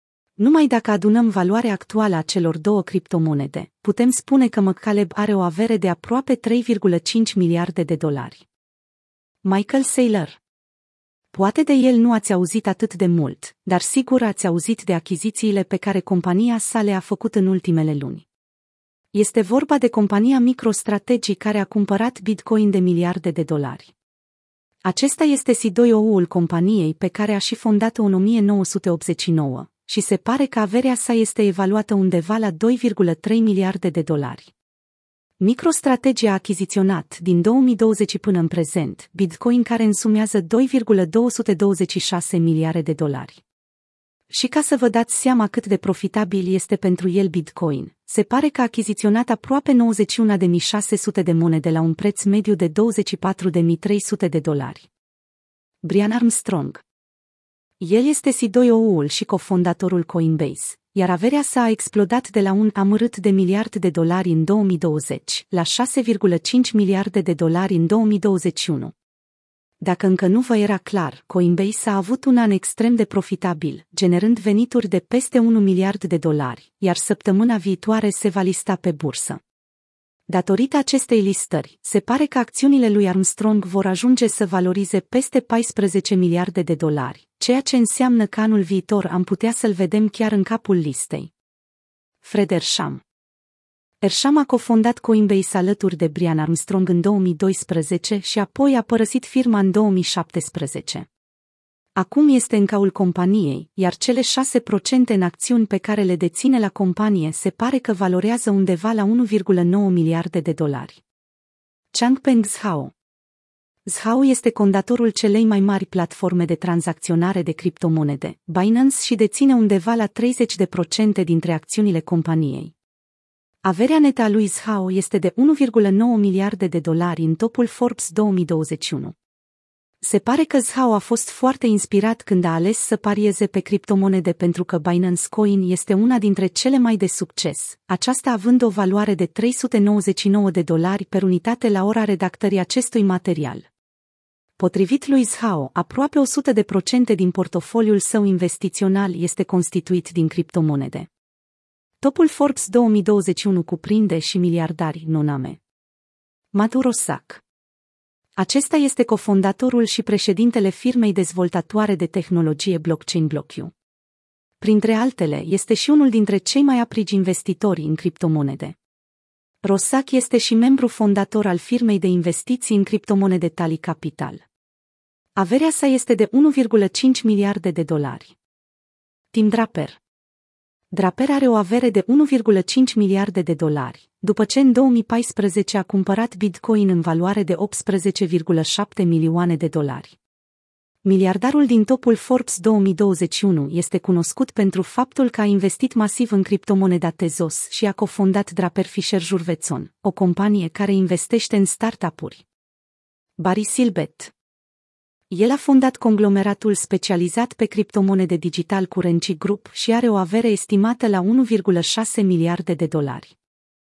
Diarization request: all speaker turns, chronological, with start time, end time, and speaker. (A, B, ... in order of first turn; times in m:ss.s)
0:00.4-0:08.4 A
0:09.4-0:10.4 A
0:11.3-0:18.2 A
0:19.1-0:23.9 A
0:24.8-0:34.5 A
0:35.4-0:43.4 A
0:44.3-0:54.9 A
0:55.8-0:56.8 A
0:57.8-1:08.9 A
1:09.8-1:19.4 A
1:20.3-1:31.3 A
1:32.2-1:33.0 A
1:34.0-1:41.1 A
1:42.0-1:51.0 A
1:51.9-1:52.9 A
1:53.8-2:02.7 A
2:03.6-2:09.2 A
2:10.0-2:23.7 A
2:24.6-2:31.1 A
2:32.0-2:35.6 A
2:36.5-2:37.4 A
2:38.4-2:43.7 A
2:44.6-2:48.8 A
2:49.6-2:54.4 A
2:55.4-2:58.4 A
2:59.3-3:00.0 A
3:00.9-3:10.2 A
3:11.0-3:22.4 A
3:23.4-3:24.3 A
3:25.3-3:33.3 A